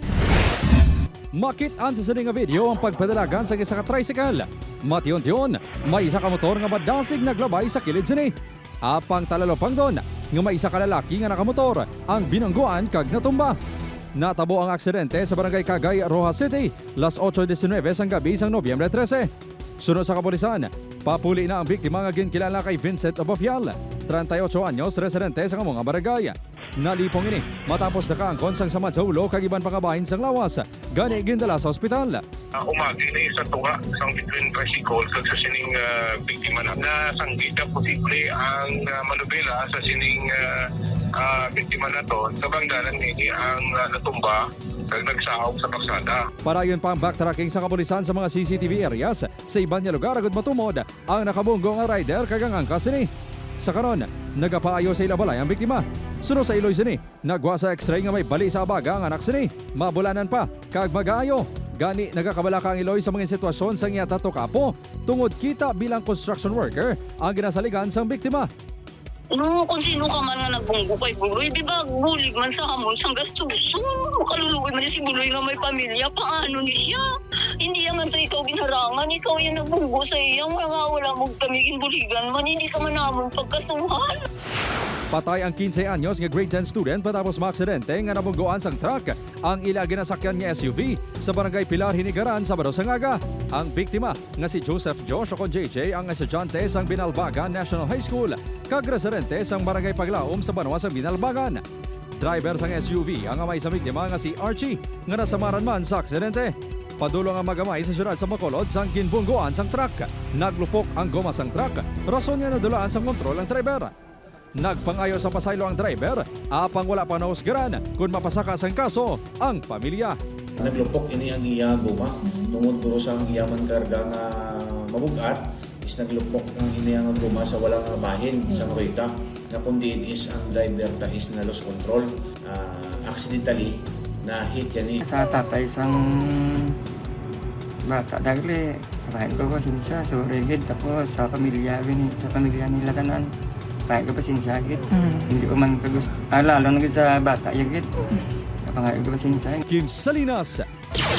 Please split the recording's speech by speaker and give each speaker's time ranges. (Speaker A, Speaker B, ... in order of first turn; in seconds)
Speaker A: 1.3-13.6, 14.2-19.3, 19.8-32.2, 46.4-68.5, 85.1-101.6, 102.2-113.9, 114.6-120.2, 149.7-150.7
Speaker B: 32.6-40.6, 41.2-46.2
Speaker C: 69.3-77.0, 77.6-84.1
Speaker D: 120.6-135.0
Speaker E: 135.0-136.8, 137.8-143.3, 143.9-149.6